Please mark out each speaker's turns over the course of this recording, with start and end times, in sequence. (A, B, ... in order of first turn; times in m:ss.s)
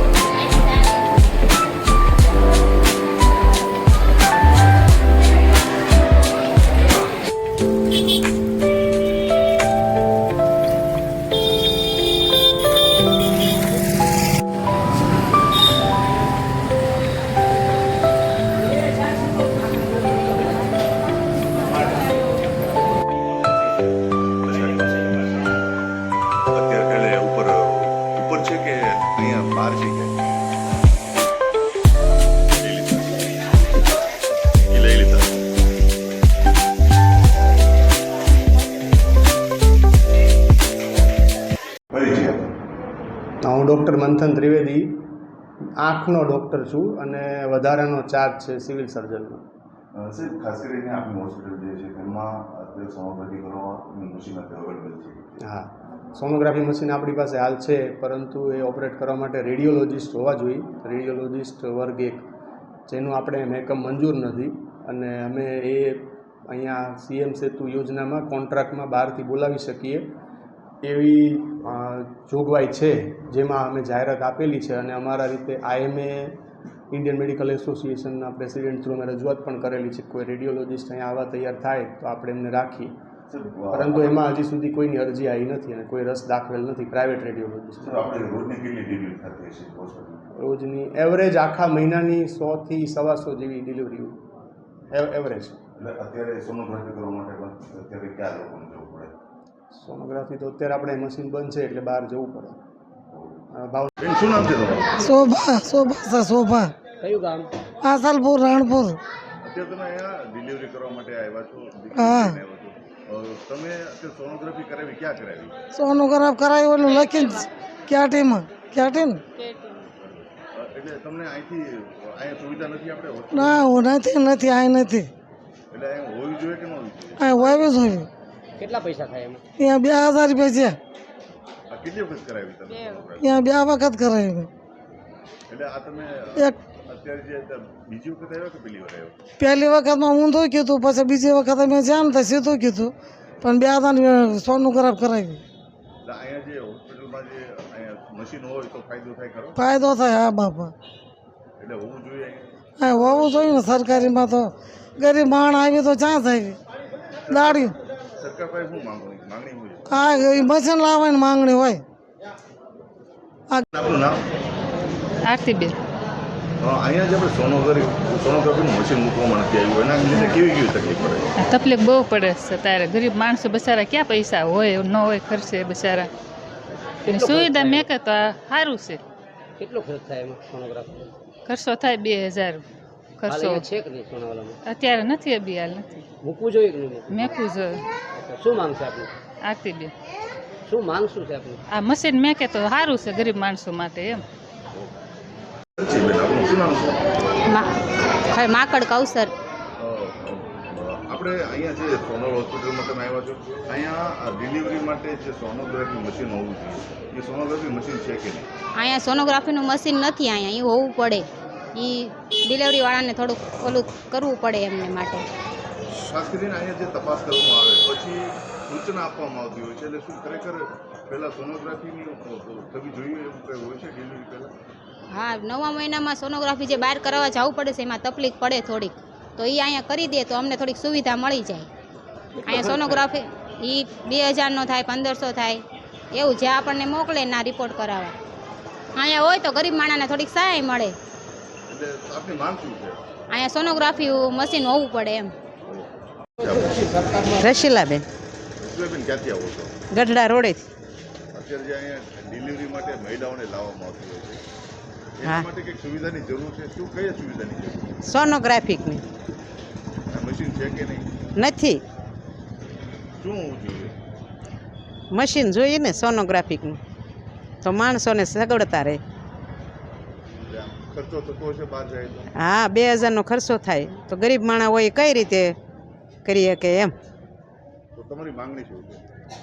0:24.4-0:25.1 A
0:26.5-0:30.2 A
0:32.6-0:33.2 A
0:34.7-0:35.3 A
0:41.9-0:42.5 A
0:43.4-0:45.0 B
0:45.8-0:49.4 B
0:50.0-0:55.4 A
0:55.5-1:02.3 B
1:02.9-1:10.1 B
1:10.8-1:16.4 B
1:16.9-1:22.9 B
1:23.3-1:24.2 A
1:23.7-1:28.2 B
1:27.8-1:30.2 A
1:30.4-1:34.2 B
1:34.9-1:35.6 B
1:35.8-1:39.1 A
1:39.8-1:42.6 B
1:43.1-1:43.4 A
1:43.6-1:43.9 B
1:44.0-1:45.0 A
1:45.0-1:46.7 C
1:47.0-1:47.5 D
1:47.8-1:49.0 C
1:49.4-1:55.6 A
1:52.0-1:52.4 C
1:55.7-1:59.2 C
1:59.7-2:03.7 A
2:03.3-2:05.1 C
2:05.7-2:07.6 A
2:07.2-2:08.1 C
2:08.6-2:09.4 D
2:09.6-2:10.8 C
2:11.7-2:13.5 A
2:13.2-2:14.5 C
2:15.5-2:19.2 A
2:19.4-2:25.4 C
2:23.3-2:23.6 A
2:26.0-2:29.6 A
2:29.6-2:30.7 C
2:31.6-2:32.5 A
2:32.8-2:36.6 C
2:37.3-2:40.3 A
2:37.3-2:37.8 C
2:39.9-2:41.8 C
2:43.7-2:44.2 A
2:45.3-2:45.8 E
2:46.6-2:51.3 A
2:51.4-2:56.1 E
2:57.1-2:57.9 D
2:57.1-2:59.0 E
2:59.6-3:01.2 D
3:01.5-3:02.6 E
3:03.2-3:03.7 E
3:03.3-3:04.6 D
3:04.7-3:06.1 E
3:06.2-3:07.3 D
3:07.1-3:07.8 E
3:08.1-3:09.1 D
3:09.4-3:09.9 E
3:10.7-3:11.6 D
3:11.7-3:14.2 E
3:15.8-3:17.1 A
3:17.5-3:17.7 F
3:18.3-3:19.3 F
3:19.8-3:28.5 A
3:28.8-3:35.3 F
3:35.9-3:44.5 A
3:45.1-3:51.7 F
3:52.4-3:55.6 F
3:52.5-3:53.0 D
3:56.1-3:58.2 F
3:59.0-4:00.9 F
4:01.7-4:03.0 A
4:03.3-4:05.3 F
4:06.4-4:07.0 A
4:07.4-4:08.0 G
4:08.6-4:09.8 A
4:09.9-4:10.6 G
4:11.3-4:14.4 A
4:15.2-4:18.0 A
4:18.0-4:19.0 G
4:20.1-4:21.1 A
4:21.4-4:21.8 G
4:23.2-4:23.9 A
4:25.1-4:26.8 G
4:27.6-4:29.0 G
4:30.4-4:32.3 A
4:32.4-4:35.6 G
4:36.2-4:36.9 G
4:38.0-4:39.0 A